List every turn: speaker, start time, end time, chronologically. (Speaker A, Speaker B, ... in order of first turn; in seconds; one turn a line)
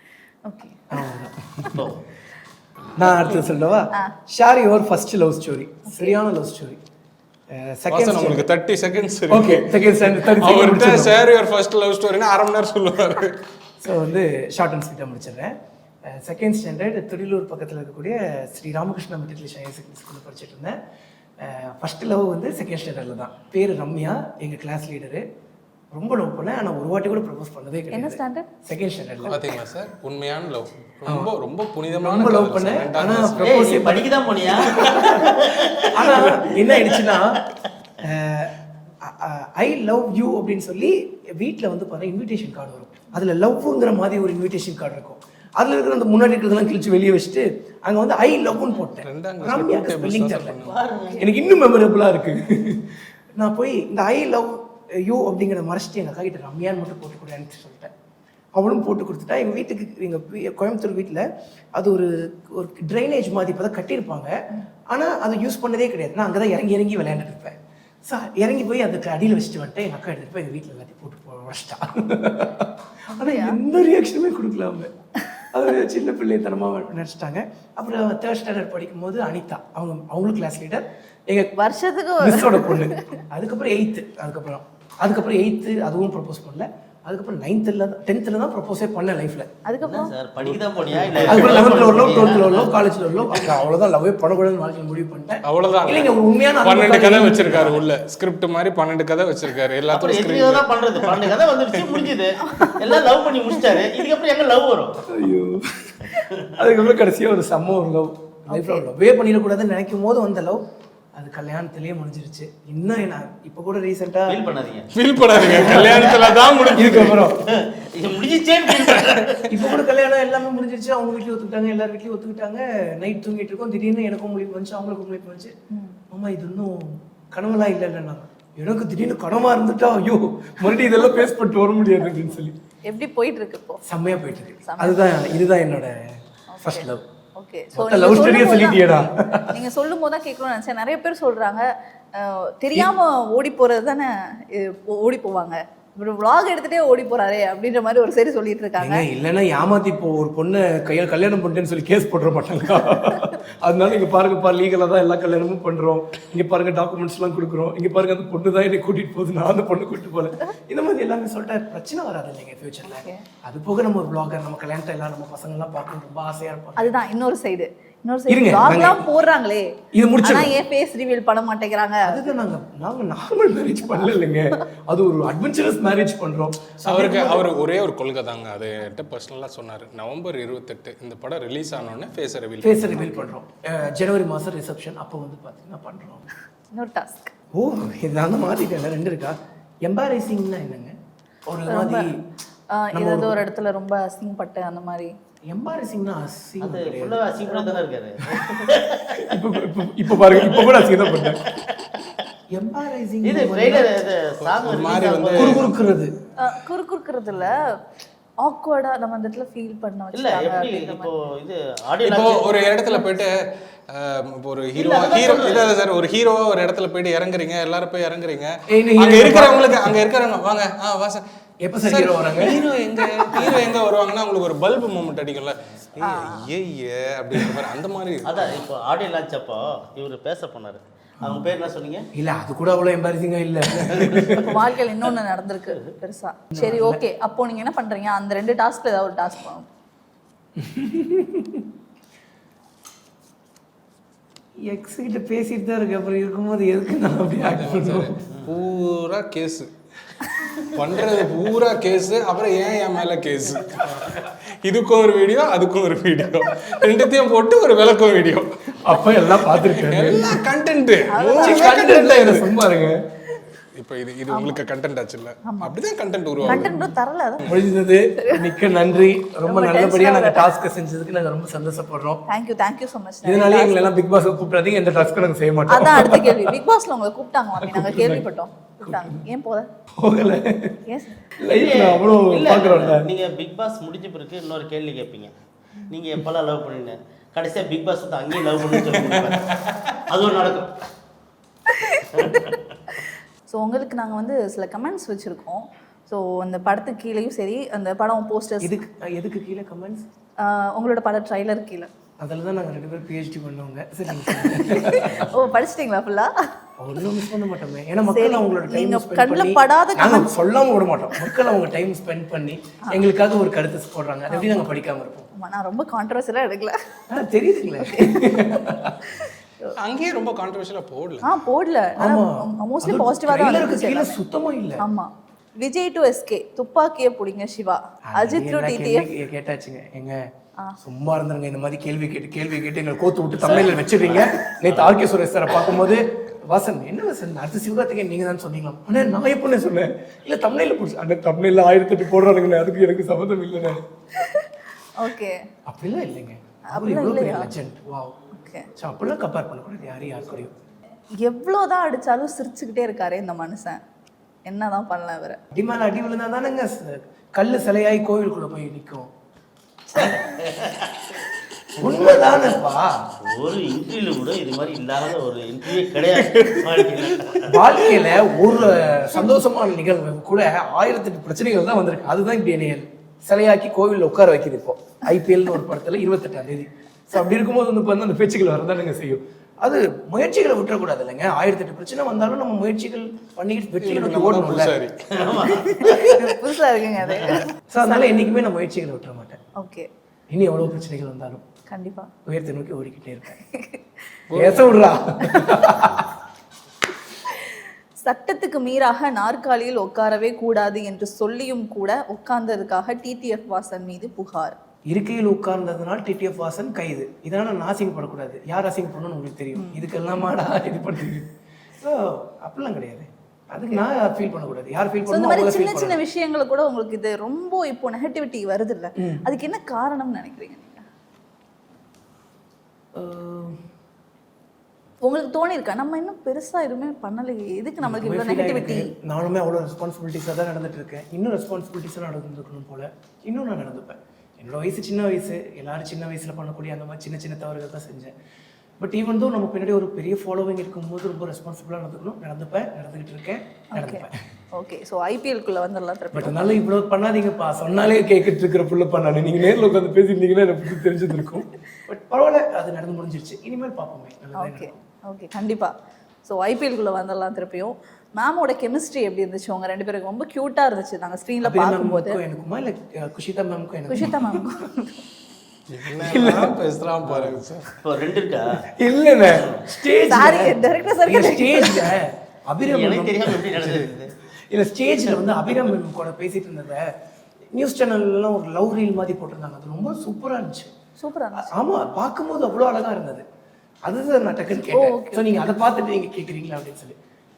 Speaker A: 0.5-1.1
Speaker B: 0.9-1.8
Speaker C: 1.7-2.0
Speaker B: 3.0-6.8
Speaker A: 3.1-3.4
Speaker A: 5.9-6.2
Speaker B: 7.6-8.5
Speaker D: 7.9-13.4
Speaker B: 9.3-11.2
Speaker B: 13.8-15.5
Speaker B: 16.1-20.7
Speaker B: 21.4-25.2
Speaker B: 25.9-29.4
Speaker A: 27.9-28.5
Speaker D: 29.3-33.6
Speaker B: 32.0-35.4
Speaker C: 33.4-35.7
Speaker D: 34.5-37.0
Speaker B: 35.9-37.4
Speaker B: 38.0-50.6
Speaker D: 49.0-50.8
Speaker C: 50.6-51.2
Speaker B: 51.2-57.9
Speaker B: 58.6-61.2
Speaker B: 61.8-64.3
Speaker B: 64.9-67.6
Speaker B: 68.1-81.5
Speaker A: 73.1-73.6
Speaker A: 81.6-83.0
Speaker B: 82.2-89.5
Speaker A: 89.7-90.1
Speaker C: 89.8-92.7
Speaker D: 90.9-91.7
Speaker B: 91.3-97.7
Speaker D: 95.5-102.1
Speaker C: 99.9-105.0
Speaker A: 102.4-102.9
Speaker B: 105.1-110.6
Speaker C: 106.1-106.4
Speaker A: 108.5-108.8
Speaker B: 111.2-114.4
Speaker C: 114.3-116.9
Speaker D: 114.9-117.3
Speaker B: 115.6-116.1
Speaker B: 116.7-117.4
Speaker C: 117.8-119.5
Speaker B: 119.5-125.5
Speaker A: 125.7-126.0
Speaker B: 126.1-132.5
Speaker A: 130.6-131.2
Speaker A: 132.9-133.8
Speaker B: 133.9-135.9
Speaker A: 134.6-135.4
Speaker A: 136.5-149.1
Speaker B: 136.6-137.0
Speaker B: 137.7-139.5
Speaker B: 148.8-166.9
Speaker A: 152.9-153.2
Speaker A: 162.8-163.2
Speaker A: 166.8-169.7
Speaker B: 168.3-169.0
Speaker B: 169.9-170.6
Speaker A: 170.2-172.3
Speaker B: 172.1-177.5
Speaker D: 176.8-183.0
Speaker B: 182.6-186.2
Speaker A: 183.0-183.3
Speaker A: 186.7-187.3
Speaker B: 187.6-190.9
Speaker B: 191.5-192.1
Speaker A: 191.7-192.0
Speaker A: 192.7-195.1
Speaker B: 192.9-193.3
Speaker B: 195.5-197.2
Speaker C: 196.6-199.1
Speaker A: 197.4-197.9
Speaker B: 199.2-201.4
Speaker C: 200.6-202.0
Speaker B: 202.6-203.9
Speaker C: 203.2-205.6
Speaker D: 204.4-205.7
Speaker B: 205.4-206.1
Speaker A: 206.4-207.8
Speaker A: 208.4-211.1
Speaker C: 210.1-212.5
Speaker D: 212.0-221.2
Speaker A: 212.9-213.2
Speaker C: 214.8-215.7
Speaker B: 218.7-219.8
Speaker B: 221.6-222.6
Speaker D: 221.8-228.6
Speaker A: 226.0-226.5
Speaker C: 228.3-232.1
Speaker B: 231.2-231.5
Speaker B: 232.2-234.6
Speaker C: 234.0-234.3
Speaker A: 234.4-239.7
Speaker B: 236.5-237.0
Speaker B: 240.6-241.6
Speaker B: 244.7-248.1
Speaker D: 247.4-249.7
Speaker D: 250.7-262.6
Speaker B: 258.8-260.4
Speaker A: 261.1-261.8
Speaker B: 261.4-262.9
Speaker D: 263.6-266.9
Speaker A: 264.3-264.6
Speaker A: 265.4-265.8
Speaker A: 266.4-267.5
Speaker B: 266.5-266.8
Speaker B: 267.4-272.2
Speaker A: 268.3-268.6
Speaker A: 269.4-270.5
Speaker A: 272.3-273.8
Speaker B: 273.2-276.5
Speaker A: 275.7-279.7
Speaker B: 277.6-278.2
Speaker B: 278.8-279.2
Speaker B: 280.0-280.8
Speaker A: 280.9-281.4
Speaker B: 281.4-283.0
Speaker C: 281.5-285.3
Speaker C: 285.9-289.5
Speaker D: 288.9-290.0
Speaker C: 290.1-290.7
Speaker A: 291.7-298.8
Speaker C: 292.1-292.6
Speaker B: 298.6-300.1
Speaker A: 300.4-301.9
Speaker B: 302.2-305.3
Speaker A: 304.2-306.3
Speaker B: 306.8-315.3
Speaker A: 308.1-310.3
Speaker A: 314.3-314.6
Speaker A: 315.4-316.8
Speaker B: 317.1-319.1
Speaker A: 317.8-319.7
Speaker D: 319.8-321.3
Speaker A: 321.2-324.2
Speaker B: 322.0-324.8
Speaker A: 324.8-329.1
Speaker B: 328.1-330.2
Speaker B: 330.8-343.8
Speaker C: 333.4-334.8
Speaker A: 344.1-345.4
Speaker B: 345.7-348.2
Speaker A: 346.7-347.5
Speaker A: 348.3-348.7
Speaker B: 348.8-350.5
Speaker A: 351.2-353.8
Speaker A: 354.5-355.4
Speaker B: 355.5-359.1
Speaker C: 360.0-360.9
Speaker B: 361.8-362.9
Speaker C: 361.8-362.6
Speaker C: 363.2-367.4
Speaker D: 366.3-367.3
Speaker B: 367.5-384.8
Speaker D: 383.8-384.9
Speaker C: 385.2-386.1
Speaker A: 385.8-388.3
Speaker C: 387.1-387.4
Speaker B: 387.7-389.4
Speaker A: 389.6-389.9
Speaker B: 390.3-391.4
Speaker A: 391.7-392.1
Speaker B: 392.3-393.4
Speaker A: 393.3-393.8
Speaker D: 394.3-394.9
Speaker B: 394.4-396.1
Speaker A: 395.2-395.7
Speaker A: 397.3-404.6
Speaker B: 404.9-411.3
Speaker A: 409.6-409.9
Speaker B: 411.8-416.0
Speaker A: 415.1-420.8
Speaker B: 419.0-419.2
Speaker B: 422.9-423.6
Speaker A: 425.0-428.8
Speaker B: 427.8-438.1
Speaker B: 438.8-444.1
Speaker A: 443.7-444.0
Speaker A: 444.6-446.5
Speaker B: 446.1-454.8
Speaker A: 454.4-455.7
Speaker A: 456.2-462.2
Speaker B: 461.4-464.5
Speaker A: 463.9-465.0
Speaker D: 465.7-467.7
Speaker B: 465.9-466.6
Speaker C: 467.0-468.5
Speaker B: 468.8-473.9
Speaker C: 469.3-469.6
Speaker A: 469.9-472.0
Speaker C: 472.7-474.2
Speaker B: 474.5-476.8
Speaker B: 477.5-480.7
Speaker A: 481.0-481.6
Speaker B: 481.4-483.2
Speaker B: 483.9-486.9
Speaker A: 484.7-485.4